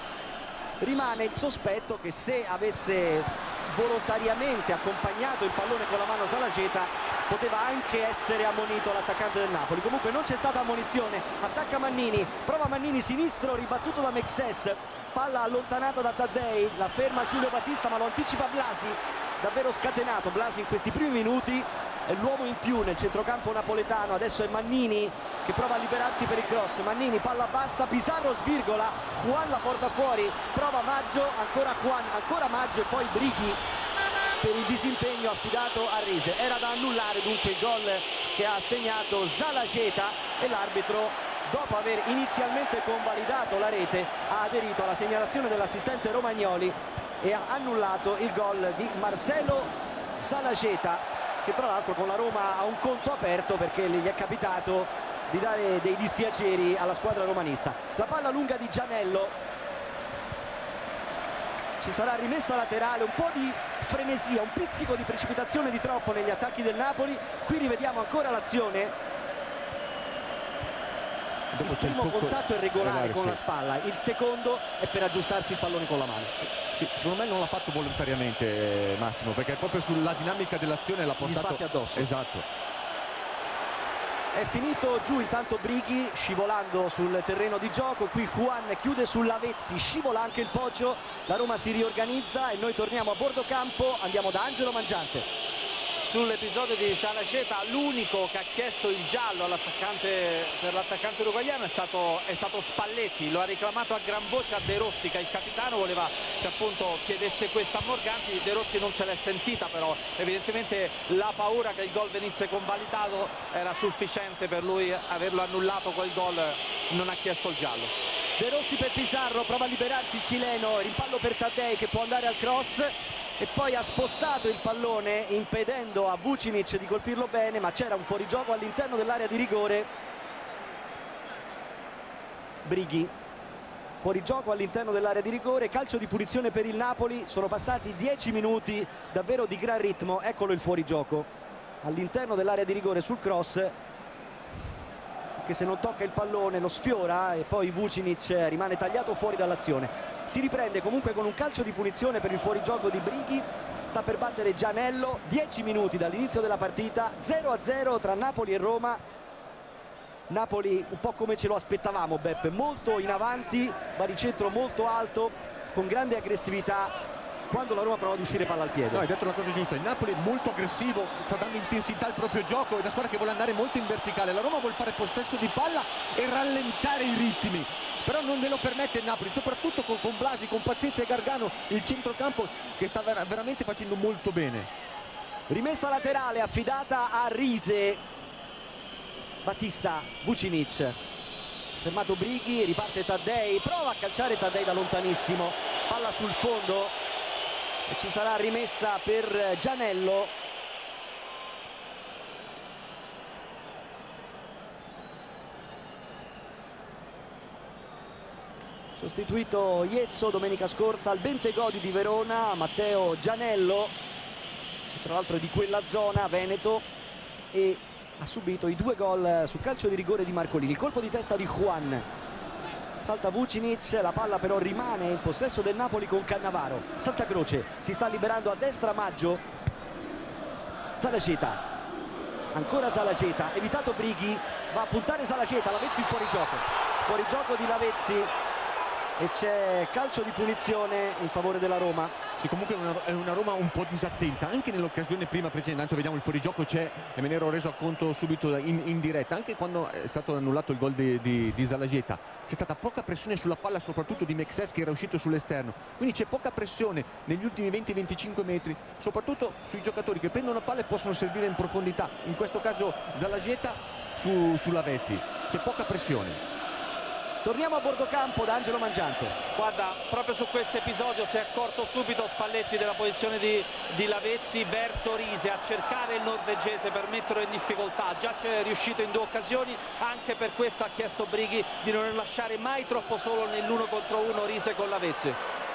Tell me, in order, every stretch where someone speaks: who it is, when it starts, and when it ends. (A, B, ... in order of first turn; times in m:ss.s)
0:00.8-0:33.6 A
0:34.4-0:59.4 A
1:01.8-1:09.0 A
1:11.5-1:13.4 B
1:11.6-1:16.3 A
1:16.7-1:22.5 B
1:21.2-1:22.1 A
1:24.3-1:35.3 A
1:36.0-1:57.9 C
1:58.4-2:09.9 A
2:12.6-2:13.1 A
2:14.0-2:21.3 A
2:21.8-2:23.7 A
2:25.4-2:39.0 A
2:40.3-2:46.9 A
2:47.5-2:49.0 A
2:48.9-3:04.7 B
3:05.5-3:08.0 A
3:09.4-3:11.0 A
3:11.8-3:17.0 A
3:17.9-3:20.3 A
3:29.0-3:33.9 A
3:34.9-3:36.8 A
3:37.5-3:42.1 A
3:43.0-3:49.4 A
3:51.0-3:51.6 A
3:52.5-3:58.3 A
3:59.2-4:02.1 A
4:02.4-4:26.4 B
4:27.4-4:29.4 A
4:29.6-4:45.4 C